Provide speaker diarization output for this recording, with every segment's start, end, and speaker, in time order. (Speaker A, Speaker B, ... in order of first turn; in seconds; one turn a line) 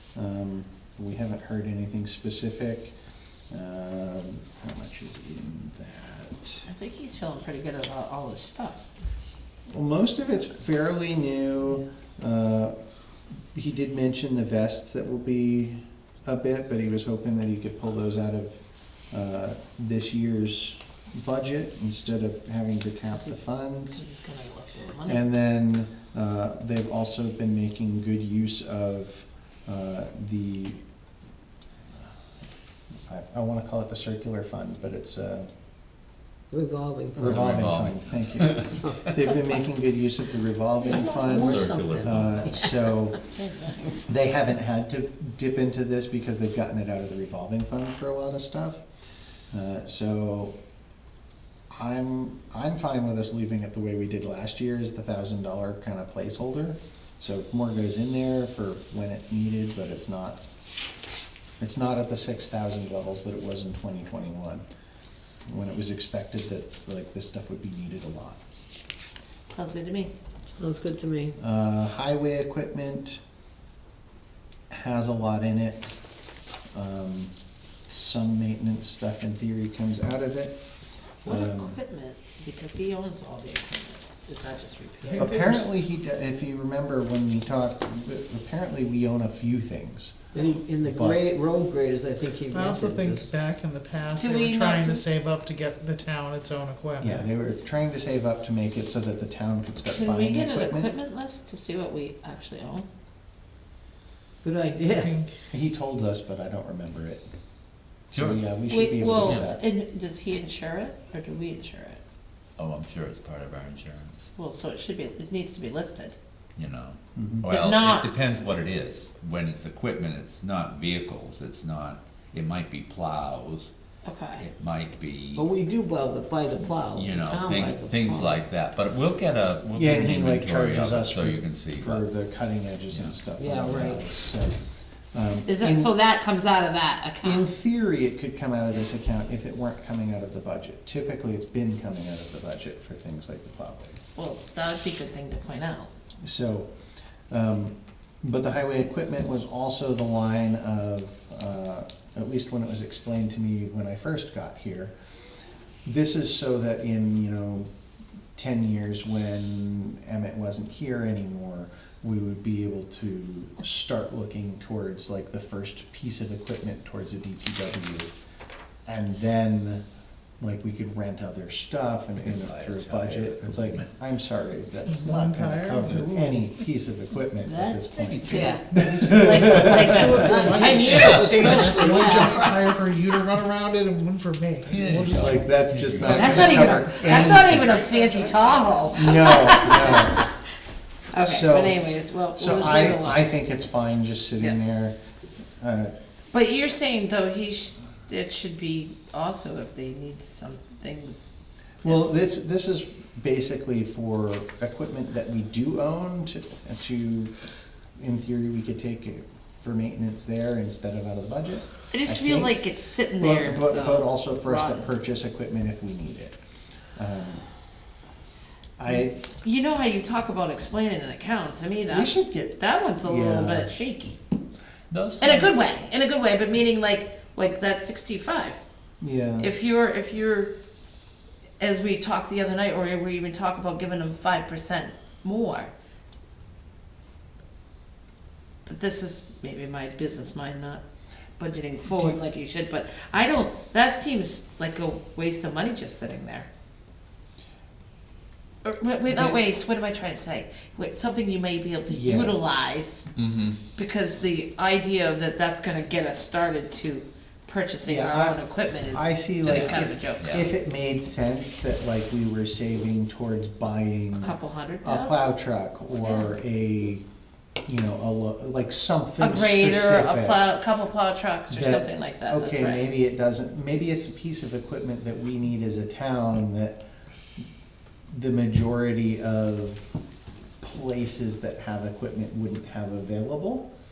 Speaker A: 0.1-2.9
Speaker A: 3.5-6.7
Speaker B: 6.7-8.9
Speaker A: 9.7-12.8
Speaker A: 13.5-24.0
Speaker B: 23.9-25.2
Speaker A: 25.1-30.8
Speaker A: 33.1-35.5
Speaker C: 36.5-37.4
Speaker A: 37.1-43.2
Speaker D: 37.2-39.0
Speaker C: 40.9-42.7
Speaker D: 40.9-42.7
Speaker B: 43.2-44.0
Speaker A: 44.0-48.8
Speaker A: 49.5-50.6
Speaker A: 51.7-60.4
Speaker A: 61.6-64.6
Speaker A: 65.5-68.4
Speaker B: 69.5-70.1
Speaker C: 70.5-71.4
Speaker A: 71.4-73.2
Speaker A: 74.7-75.9
Speaker A: 76.7-77.3
Speaker A: 77.9-80.6
Speaker A: 81.2-81.8
Speaker B: 81.2-85.4
Speaker E: 85.0-85.8
Speaker A: 85.2-90.2
Speaker C: 90.3-93.3
Speaker A: 90.8-91.2
Speaker E: 92.5-97.3
Speaker B: 94.2-95.0
Speaker A: 97.0-100.9
Speaker B: 99.9-102.9
Speaker C: 104.4-105.1
Speaker E: 104.9-105.3
Speaker A: 105.5-107.2
Speaker A: 108.1-109.6
Speaker D: 108.1-108.4
Speaker B: 108.7-112.0
Speaker D: 109.2-109.5
Speaker D: 112.6-114.3
Speaker B: 114.4-116.2
Speaker D: 116.6-123.7
Speaker A: 117.2-117.5
Speaker B: 117.5-118.1
Speaker B: 124.0-124.5
Speaker D: 124.4-125.5
Speaker C: 125.4-128.4
Speaker D: 126.8-132.1
Speaker A: 129.8-134.6
Speaker D: 132.9-133.2
Speaker C: 133.4-134.1
Speaker A: 135.1-135.9
Speaker B: 135.5-137.5
Speaker A: 137.2-144.2
Speaker B: 144.2-145.9
Speaker A: 146.2-146.7
Speaker A: 147.3-154.9
Speaker A: 155.8-157.7
Speaker A: 158.4-168.1
Speaker A: 168.9-169.8
Speaker A: 170.4-180.2
Speaker D: 172.2-173.9
Speaker E: 174.9-176.4
Speaker D: 177.5-178.6
Speaker B: 177.5-182.4
Speaker C: 178.3-178.7
Speaker E: 178.7-185.3
Speaker C: 180.2-182.6
Speaker D: 180.9-181.4
Speaker D: 184.7-186.7
Speaker A: 185.1-187.8
Speaker E: 186.0-189.7
Speaker B: 186.1-190.3
Speaker A: 188.9-190.2
Speaker B: 191.1-193.3
Speaker A: 191.2-191.8
Speaker A: 192.3-195.0
Speaker A: 195.6-195.9
Speaker B: 196.3-201.3
Speaker A: 201.8-207.3
Speaker A: 208.0-212.6
Speaker B: 211.9-214.9
Speaker A: 213.2-216.4
Speaker A: 217.0-217.4
Speaker A: 218.8-219.2
Speaker B: 219.4-224.2
Speaker A: 221.9-223.7
Speaker D: 224.9-225.5
Speaker B: 225.2-228.6
Speaker A: 229.0-229.5
Speaker B: 229.4-230.5
Speaker B: 231.6-235.7
Speaker B: 238.7-240.8
Speaker B: 241.4-246.5
Speaker A: 241.9-242.2
Speaker B: 248.6-253.1
Speaker A: 249.1-249.4
Speaker A: 251.9-252.4
Speaker D: 253.2-253.6
Speaker B: 253.8-260.3
Speaker A: 257.8-267.1
Speaker D: 259.4-260.5
Speaker B: 264.2-265.3
Speaker B: 266.0-266.3
Speaker A: 267.7-270.4
Speaker B: 269.2-272.8
Speaker A: 271.5-276.8
Speaker A: 278.1-280.0
Speaker A: 280.6-283.7